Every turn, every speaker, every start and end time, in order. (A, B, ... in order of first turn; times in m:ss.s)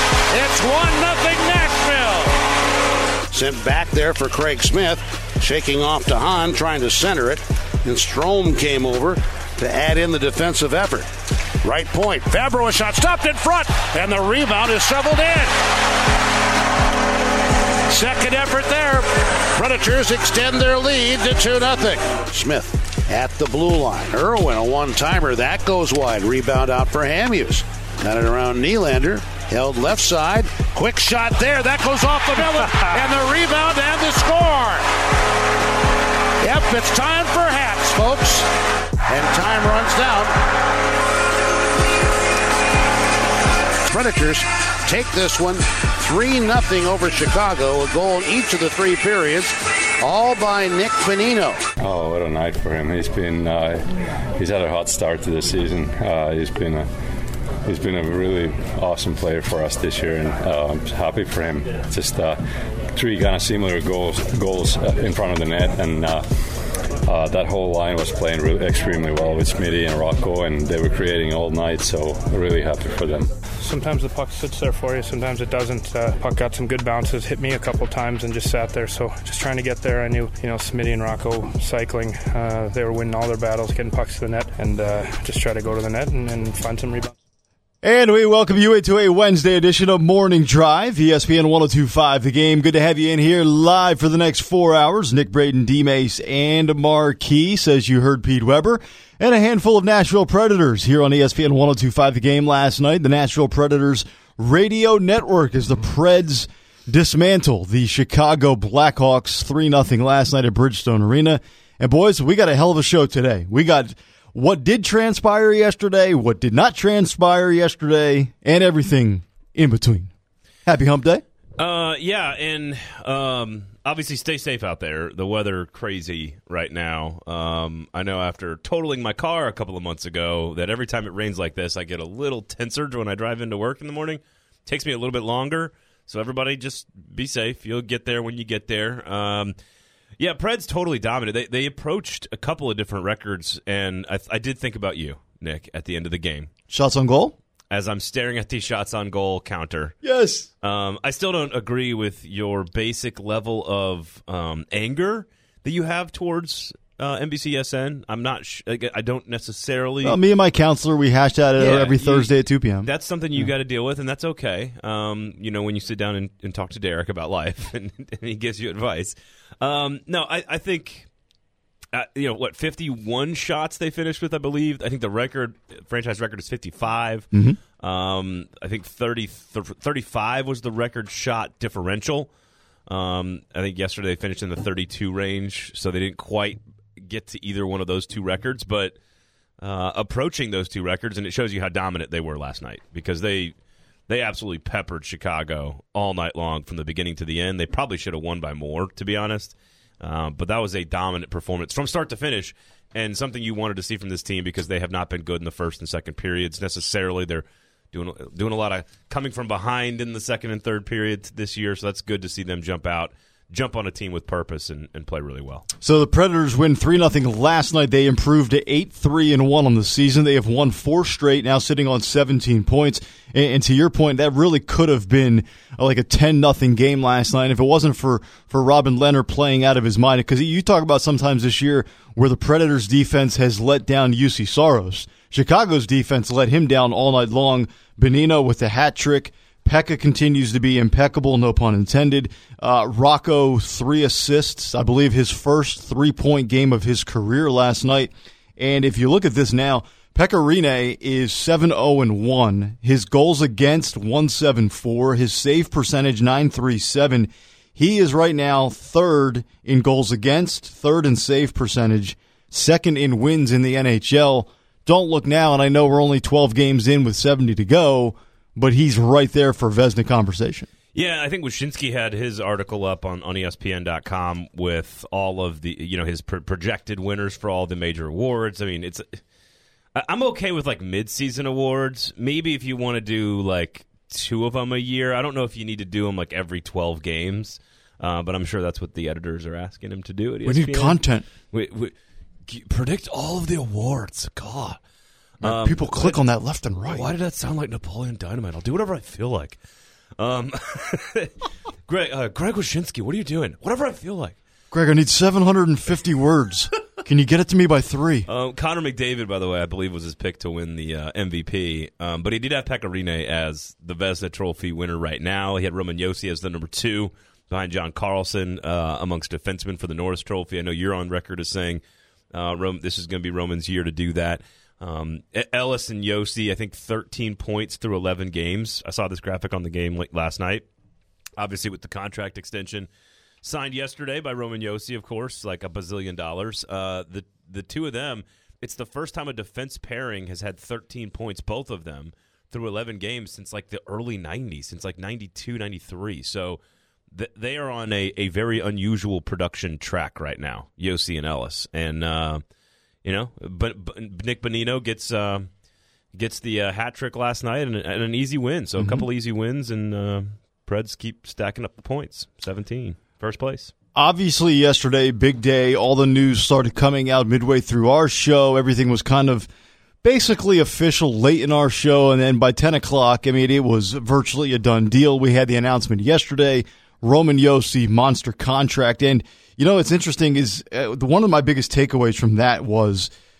0:00.3-0:02.4 A
0:03.3-0:11.1 A
0:11.6-0:15.5 A
0:17.9-0:34.8 A
0:36.4-0:38.5 A
0:39.0-0:40.3 A
0:43.9-0:51.6 A
0:51.8-0:56.9 B
0:57.6-1:02.4 B
1:02.9-1:13.3 B
1:13.6-1:27.1 C
1:27.8-2:00.1 D
2:00.6-2:01.2 D
2:01.6-2:19.5 E
2:20.2-2:26.5 E
2:26.7-2:27.4 D
2:27.7-2:30.0 E
2:30.0-2:30.5 D
2:30.6-2:40.2 E
2:40.0-2:43.4 D
2:41.6-2:42.3 E
2:42.8-2:51.1 E
2:51.9-3:02.3 E
2:57.3-2:57.6 D
3:02.9-3:08.9 E
3:09.6-3:13.5 E
3:14.1-3:35.6 E
3:35.8-4:30.7 D
4:30.9-4:39.2 E
4:39.9-4:51.0 E
4:50.4-4:51.2 D
4:51.5-4:51.9 E
4:52.5-4:54.8 E
4:55.4-4:56.2 E
4:55.4-4:57.0 D
4:56.8-4:59.6 E
5:00.2-5:04.4 E
5:04.7-5:08.3 D
5:08.3-5:21.8 E
5:22.3-5:30.6 E
5:31.4-5:32.9 E
5:33.4-5:46.6 E
5:47.1-5:52.4 E
5:53.0-5:55.5 E
5:56.1-6:03.7 E
5:58.8-5:59.0 D
6:04.0-6:09.5 D
6:10.0-6:23.1 D